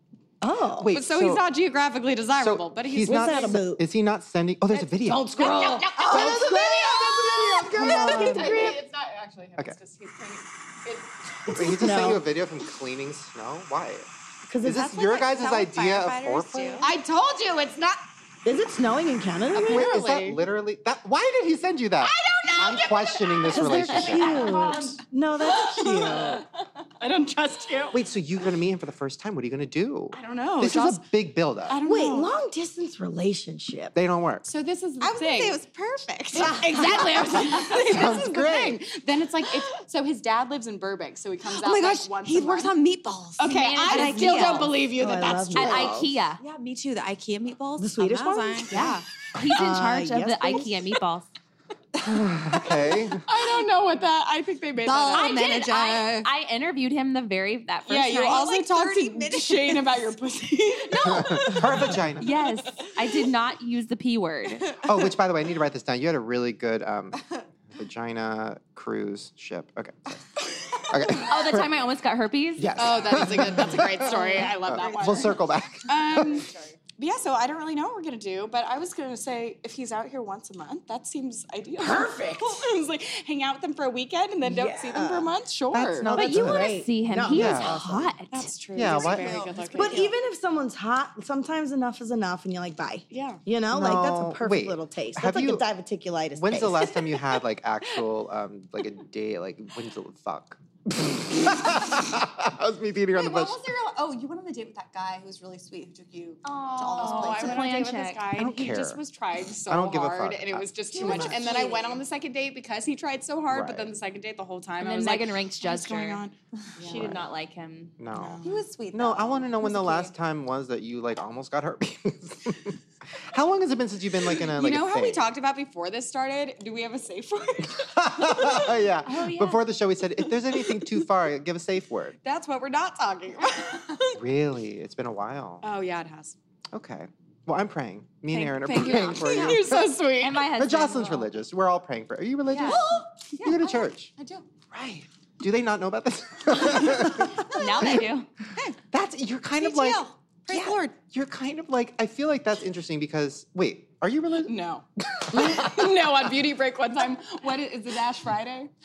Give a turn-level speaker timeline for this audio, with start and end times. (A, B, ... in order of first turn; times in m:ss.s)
0:00.4-0:01.0 A
0:00.8-0:01.4 B
0:00.8-0:03.6 C
0:02.4-0:05.5 B
0:03.0-0:03.8 A
0:05.0-0:08.8 A
0:05.4-0:07.2 D
0:05.4-0:11.8 C
0:06.1-0:06.7 B
0:07.8-0:08.5 B
0:11.5-0:14.1 B
0:11.6-0:12.2 A
0:14.5-0:14.9 A
0:14.6-0:16.9 B
0:14.7-0:18.0 D
0:18.4-0:20.0 A
0:19.5-0:20.4 C
0:19.5-0:24.4 B
0:22.0-0:24.8 D
0:23.5-0:26.4 A
0:24.0-0:25.0 C
0:24.1-0:24.8 E
0:25.6-0:26.5 C
0:27.0-0:28.0 C
0:27.9-0:31.8 B
0:30.1-0:31.1 C
0:31.7-0:32.3 C
0:31.8-0:33.9 A
0:34.0-0:34.5 B
0:34.4-0:35.6 C
0:35.0-0:37.8 D
0:36.3-0:42.7 C
0:36.3-0:37.5 A
0:37.6-0:38.8 B
0:41.5-0:44.8 D
0:43.4-0:46.0 C
0:43.5-0:44.7 E
0:45.0-0:46.2 A
0:45.5-0:46.4 E
0:46.4-0:49.1 D
0:47.8-0:50.9 A
0:49.3-0:51.3 E
0:52.0-0:53.3 B
0:53.2-0:55.5 C
0:54.8-0:56.3 D
0:55.1-0:58.5 E
0:57.9-1:02.9 C
0:58.2-1:00.0 D
1:00.9-1:01.6 E
1:01.0-1:02.3 B
1:02.2-1:04.8 E
1:04.8-1:11.7 B
1:10.7-1:11.2 C
1:11.1-1:13.2 E
1:12.6-1:16.5 B
1:12.8-1:26.2 C
1:14.1-1:15.3 D
1:16.2-1:16.5 D
1:21.8-1:22.6 A
1:24.4-1:25.4 A
1:25.7-1:27.8 B
1:26.1-1:28.5 E
1:26.1-1:28.1 A
1:28.3-1:30.1 C
1:28.7-1:29.4 B
1:28.8-1:30.1 D
1:29.8-1:37.0 A
1:33.1-1:33.4 C
1:33.7-1:35.7 B
1:36.4-1:43.6 B
1:43.1-1:47.8 D
1:46.4-1:48.2 E
1:47.0-1:57.2 C
1:48.3-1:49.0 B
1:49.7-1:51.3 B
1:50.9-1:51.9 A
1:51.1-1:51.8 D
1:53.5-1:53.9 B
1:54.8-1:56.2 E
1:56.8-1:58.0 E
1:56.8-1:57.1 D
1:58.0-2:02.8 B
1:58.1-1:58.6 C
1:58.4-2:00.2 D
2:03.3-2:05.2 B
2:04.4-2:08.8 C
2:07.7-2:12.2 B
2:09.0-2:09.6 E
2:10.5-2:11.1 C
2:12.2-2:14.2 C
2:14.1-2:15.6 B
2:15.6-2:16.4 C
2:16.7-2:20.0 B
2:18.3-2:20.5 C
2:19.1-2:19.6 D
2:20.2-2:21.3 E
2:20.5-2:24.1 B
2:22.5-2:22.9 E
2:22.6-2:23.1 D
2:22.9-2:24.4 C
2:24.7-2:28.0 B
2:27.4-2:28.3 E
2:27.5-2:27.9 D
2:28.9-2:36.2 B
2:29.6-2:30.9 D
2:34.4-2:38.7 C
2:35.3-2:35.7 A